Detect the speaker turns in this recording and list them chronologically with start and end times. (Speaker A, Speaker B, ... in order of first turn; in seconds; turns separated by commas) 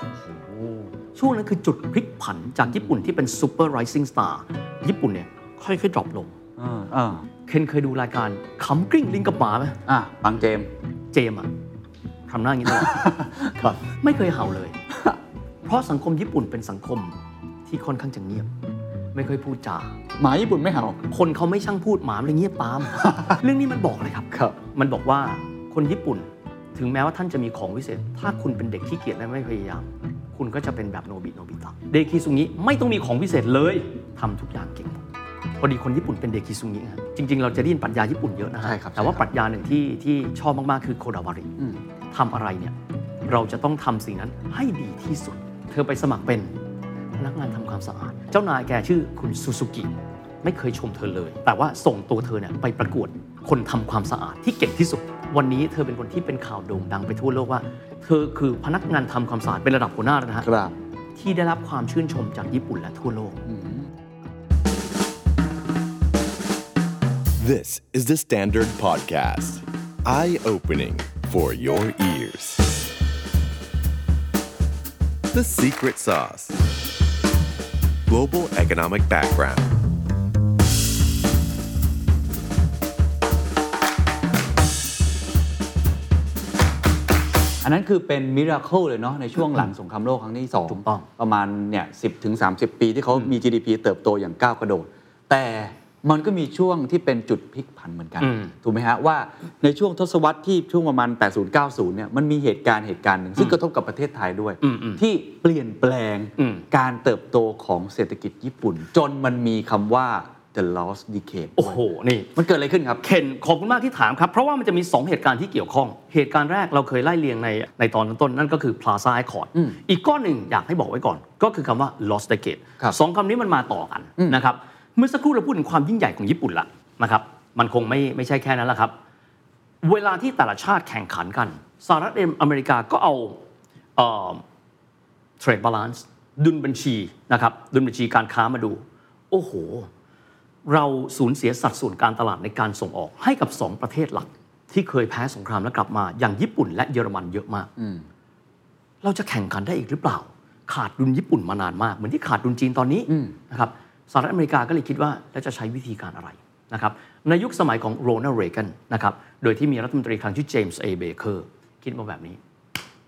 Speaker A: 0.2-0.9, Speaker B: 1.1-6.3, Speaker A: 6.6-7.2, Speaker B: 7.5-9.8, Speaker A: 9.9-10.7, Speaker B: 11.1-11.5, Speaker B: 12.3-13.1, Speaker A: 12.7-13.8, Speaker B: 14.0-14.8, Speaker A: 14.9-15.2, Speaker B: 15.6-17.1, Speaker B: 17.6-18.5, Speaker B: 19.1-20.0, Speaker A: 20.1-21.0, Speaker B: 21.1-35.0, Speaker A: 23.0-23.4, Speaker A: 24.3-24.6, Speaker B: 35.6-41.5, Speaker A: 38.6-39.2, Speaker B: 42.1-42.7, Speaker B: 43.2-46.5, Speaker B: 47.1-49.9, Speaker B: 50.4-60.5, Speaker A: 60.4-60.7, Speaker B: 61.1-63.4, Speaker A: 63.5-63.9, Speaker C: 67.4-72.8, Speaker C: 75.3-76.6, Speaker C: 78.1-79.7, Speaker A: 87.6-111.8, Speaker B: 90.7-91.0, Speaker B: 98.2-98.5, Speaker B: 104.6-105.0, Speaker B: 106.4-106.6, Speaker B: 111.6-112.3, Speaker A: 112.3-113.0, Speaker B: 113.0-128.9, Speaker B: 129.8-133.4, Speaker B: 133.9-134.4, Speaker B: 135.4-139.9, Speaker B: 140.7-147.7, Speaker A: 147.8-148.0, Speaker B: 149.0-162.4, Speaker A: 153.1-153.3